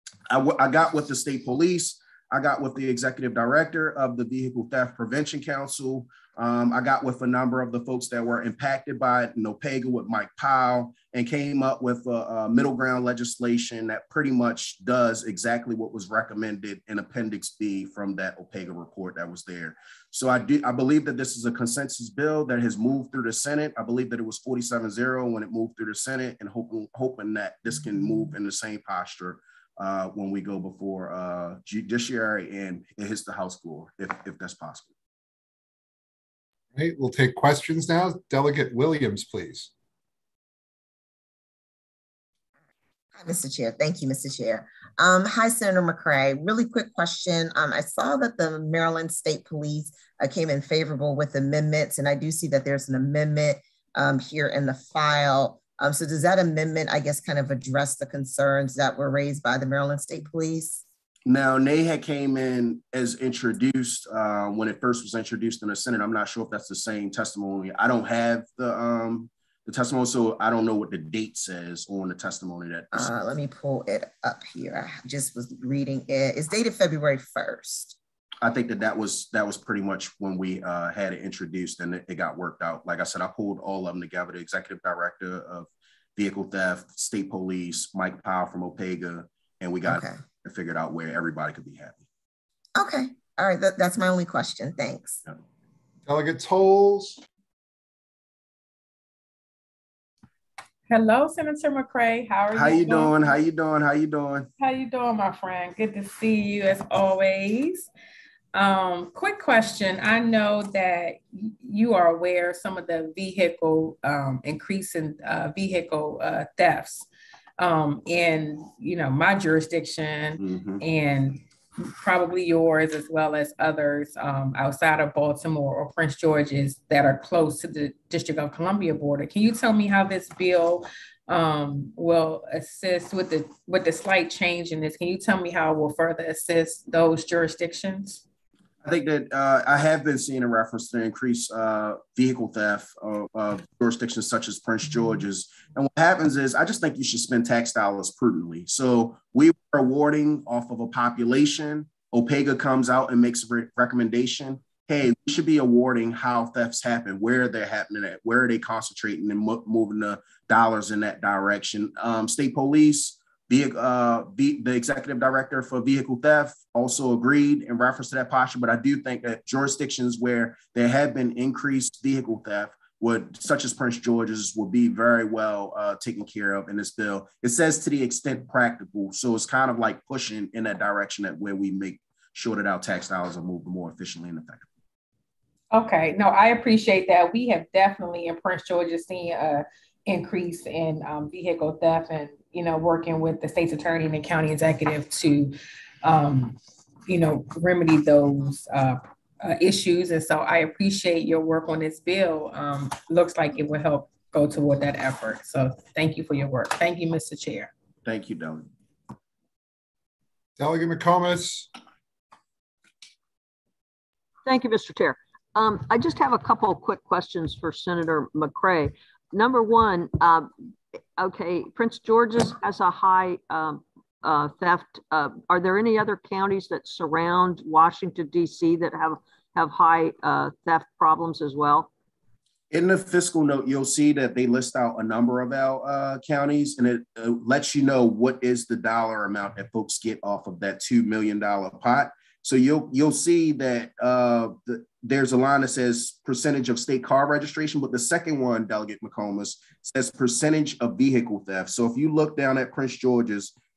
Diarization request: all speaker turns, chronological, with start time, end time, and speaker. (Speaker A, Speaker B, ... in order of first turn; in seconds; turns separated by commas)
Speaker A: 0.3-34.9, Speaker B: 36.8-39.7, Speaker C: 43.2-60.8, Speaker A: 61.3-73.1, Speaker C: 72.9-78.0, Speaker A: 78.4-92.0, Speaker C: 89.9-90.2, Speaker C: 92.8-95.2, Speaker B: 96.1-97.2, Speaker D: 100.9-103.4, Speaker A: 102.5-104.5, Speaker D: 104.6-107.9, Speaker D: 108.5-117.1, Speaker D: 117.6-138.2, Speaker A: 120.4-120.8, Speaker A: 138.8-184.7, Speaker D: 185.7-207.7, Speaker A: 208.1-208.7, Speaker B: 210.6-211.7, Speaker E: 214.4-220.5, Speaker E: 221.2-231.9, Speaker A: 232.7-253.5